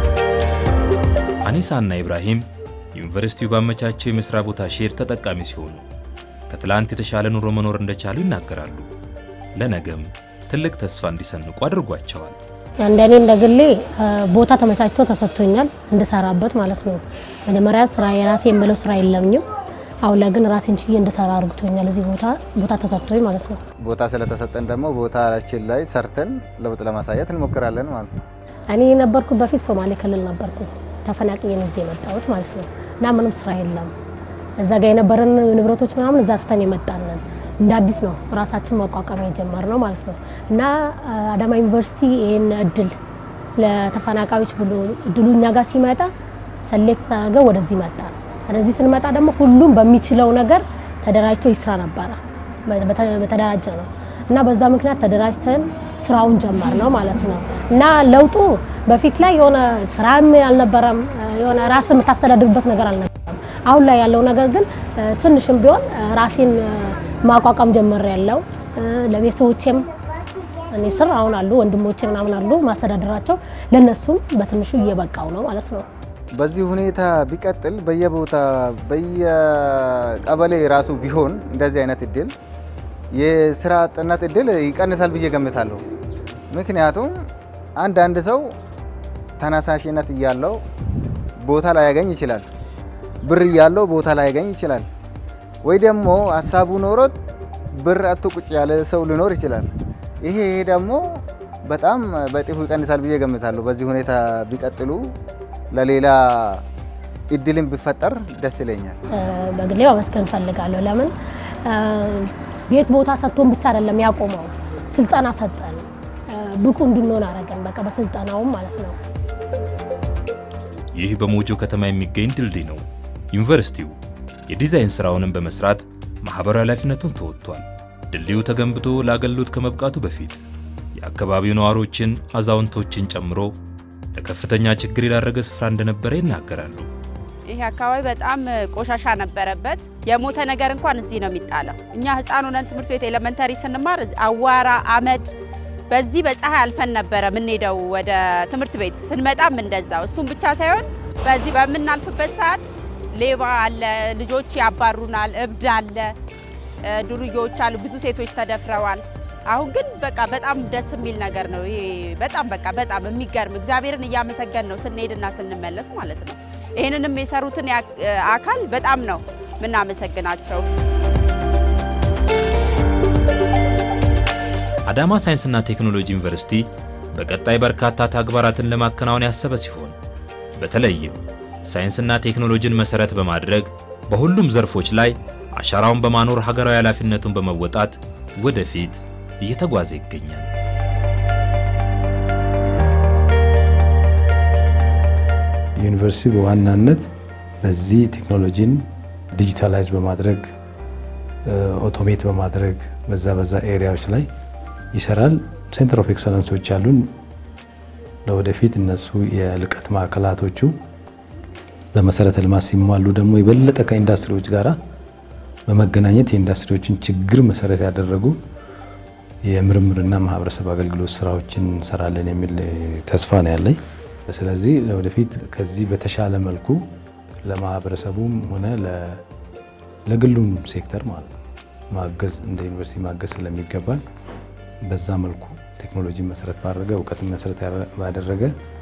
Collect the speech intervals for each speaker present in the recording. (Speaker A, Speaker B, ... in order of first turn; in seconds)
Speaker A: 1.4-5.8, 6.5-8.9, 9.6-12.4, 121.0-123.9, 124.5-130.4, 131.0-133.5, 134.1-136.9, 174.9-179.9, 180.6-190.5
Speaker B: 12.8-19.4, 20.0-23.6, 28.7-33.9, 34.6-43.0, 43.6-46.1, 46.7-69.8, 70.7-75.8, 109.1-111.1, 111.6-119.0
Speaker C: 23.8-28.1, 76.3-82.3, 83.1-85.8, 86.5-87.1, 87.8-88.4, 89.4-90.5, 91.4-92.4, 93.3-94.8, 95.6-97.1, 97.8-99.6, 100.2-101.0, 101.6-105.0, 105.7-106.6, 107.3-109.0
Speaker D: 137.4-145.3, 145.9-156.1, 156.8-170.6
Speaker E: 195.8-197.1, 197.6-200.5, 201.4-204.3, 204.9-207.1, 208.2-210.7, 211.9-214.7, 215.7-218.4, 219.4-226.8, 227.4-229.2, 230.1-231.4, 231.9-234.0, 234.8-238.5